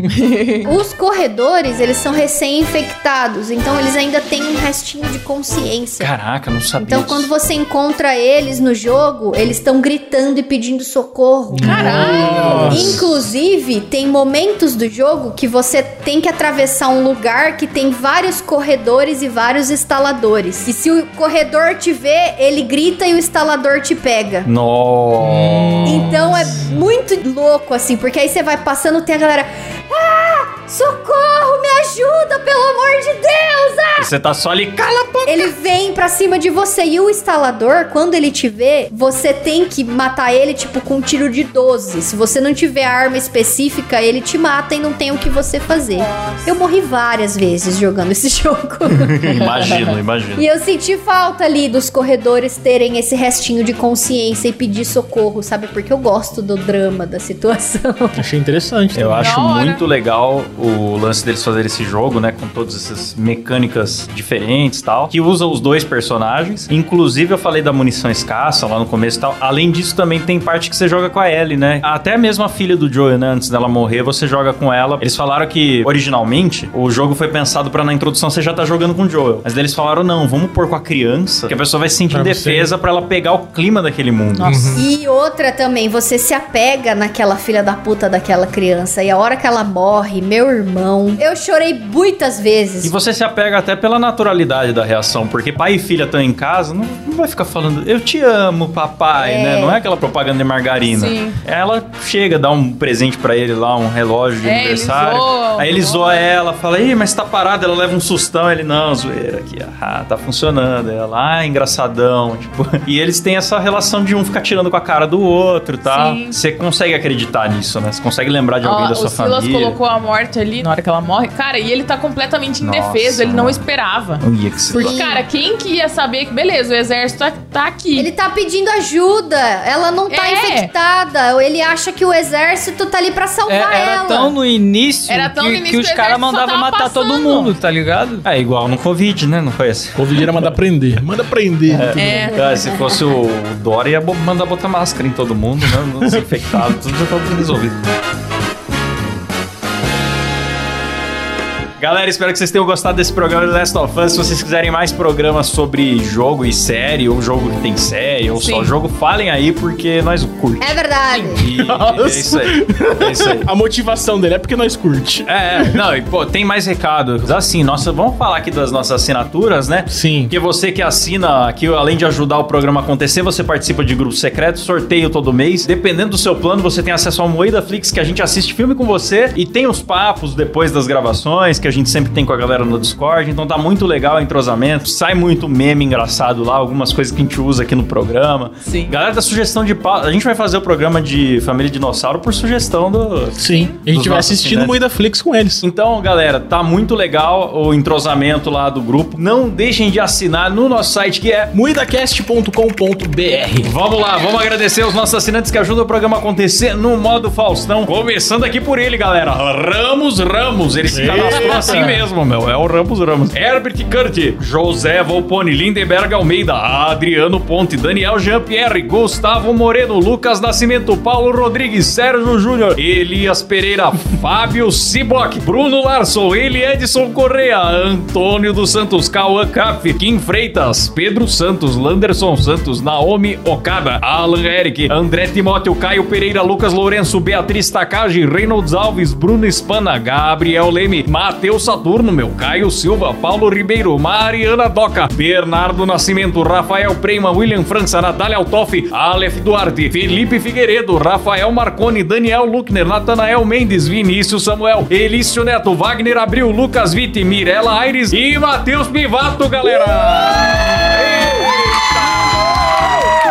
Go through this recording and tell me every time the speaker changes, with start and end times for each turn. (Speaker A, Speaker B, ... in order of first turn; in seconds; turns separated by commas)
Speaker A: 0.2-0.7, Speaker B: 0.6-6.1, Speaker C: 6.0-7.3, Speaker B: 6.8-24.5, Speaker D: 11.5-13.0, Speaker A: 11.6-12.7, Speaker C: 12.4-13.1, Speaker C: 24.4-26.1, Speaker D: 25.2-26.8, Speaker B: 25.8-34.1, Speaker C: 34.0-35.5, Speaker B: 35.2-49.7, Speaker A: 45.9-46.5, Speaker C: 49.0-50.4, Speaker A: 49.3-49.9, Speaker B: 50.4-58.2, Speaker D: 58.1-59.3, Speaker C: 58.9-84.6, Speaker A: 59.2-59.8, Speaker D: 82.1-82.7, Speaker A: 84.3-84.9, Speaker D: 84.4-84.8, Speaker B: 84.7-92.9, Speaker C: 92.8-119.8, Speaker B: 99.1-99.8, Speaker A: 100.9-101.4, Speaker A: 104.4-106.3, Speaker A: 115.9-116.4, Speaker A: 118.6-128.1, Speaker C: 122.6-123.6, Speaker C: 124.2-125.0, Speaker B: 124.7-125.2, Speaker B: 128.0-134.3, Speaker A: 130.1-130.7, Speaker E: 133.5-138.2, Speaker A: 135.1-137.5, Speaker C: 138.2-140.6, Speaker D: 139.9-142.3, Speaker C: 141.7-147.8, Speaker A: 141.9-142.4, Speaker D: 146.0-146.7, Speaker C: 151.8-160.8, Speaker A: 158.3-158.7, Speaker B: 160.6-161.4, Speaker C: 161.3-163.5, Speaker D: 161.5-165.8, Speaker C: 165.2-194.8, Speaker D: 169.9-170.3, Speaker A: 188.6-188.9, Speaker D: 193.4-195.6, Speaker A: 193.4-193.8, Speaker C: 195.6-201.5, Speaker D: 201.5-203.7, Speaker C: 203.6-263.1, Speaker D: 210.9-212.1